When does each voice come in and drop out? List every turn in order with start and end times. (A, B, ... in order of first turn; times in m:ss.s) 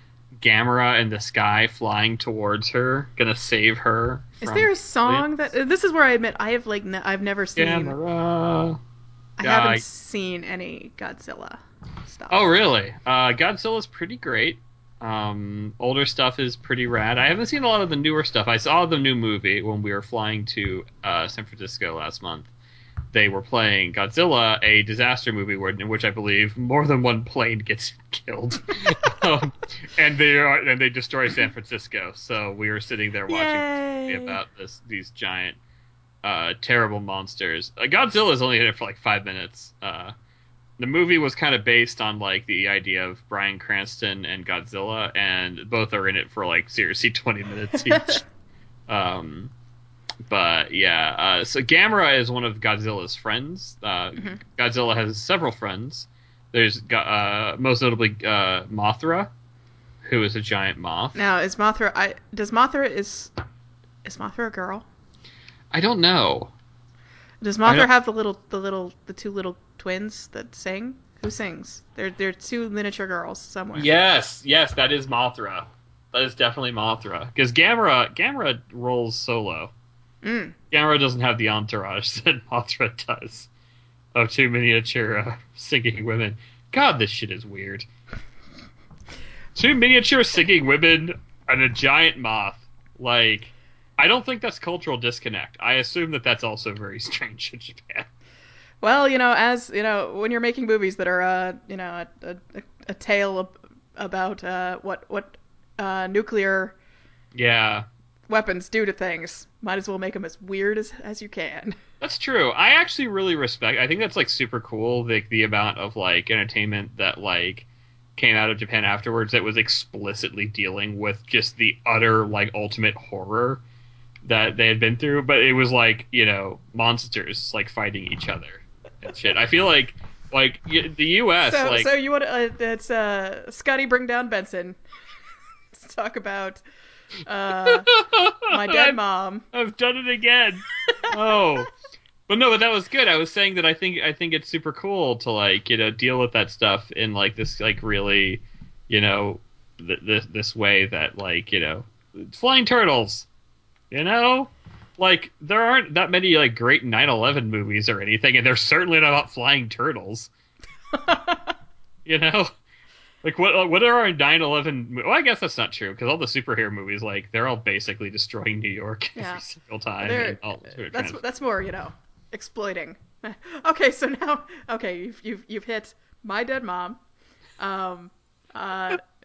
0:00.3-0:05.3 A
0:04.4-0:08.0 B
0:07.6-0:08.8 A
0:09.4-0:12.5 B
0:09.4-0:09.8 A
0:12.3-0:22.5 A
0:23.1-0:35.6 A
0:33.3-0:34.4 B
0:36.2-0:40.1 A
0:40.8-0:48.2 A
0:47.8-0:48.2 B
0:48.9-0:49.5 A
0:50.3-0:59.3 A
1:00.0-1:01.2 A
1:01.1-1:03.3 B
1:04.0-1:04.8 B
1:05.7-1:06.5 A
1:07.4-1:13.9 B
1:13.7-1:19.7 A
1:20.2-1:20.6 B
1:20.7-1:23.5 A
1:24.1-1:27.8 A
1:29.5-1:38.1 A
1:38.8-1:46.8 B
1:47.3-1:47.8 A
1:48.3-1:51.8 B
1:52.0-2:03.6 A
2:04.2-2:11.9 A
2:11.4-2:14.8 B
2:15.7-2:16.6 B
2:17.2-2:17.9 B
2:17.6-2:19.0 A
2:18.4-2:19.5 B
2:19.5-2:21.7 A
2:22.3-2:33.3 A
2:33.9-2:40.3 A
2:40.9-2:41.5 B
2:42.0-2:42.5 A
2:43.2-2:51.2 A
2:49.1-2:49.4 B
2:50.0-2:57.0 B
2:57.6-2:59.0 B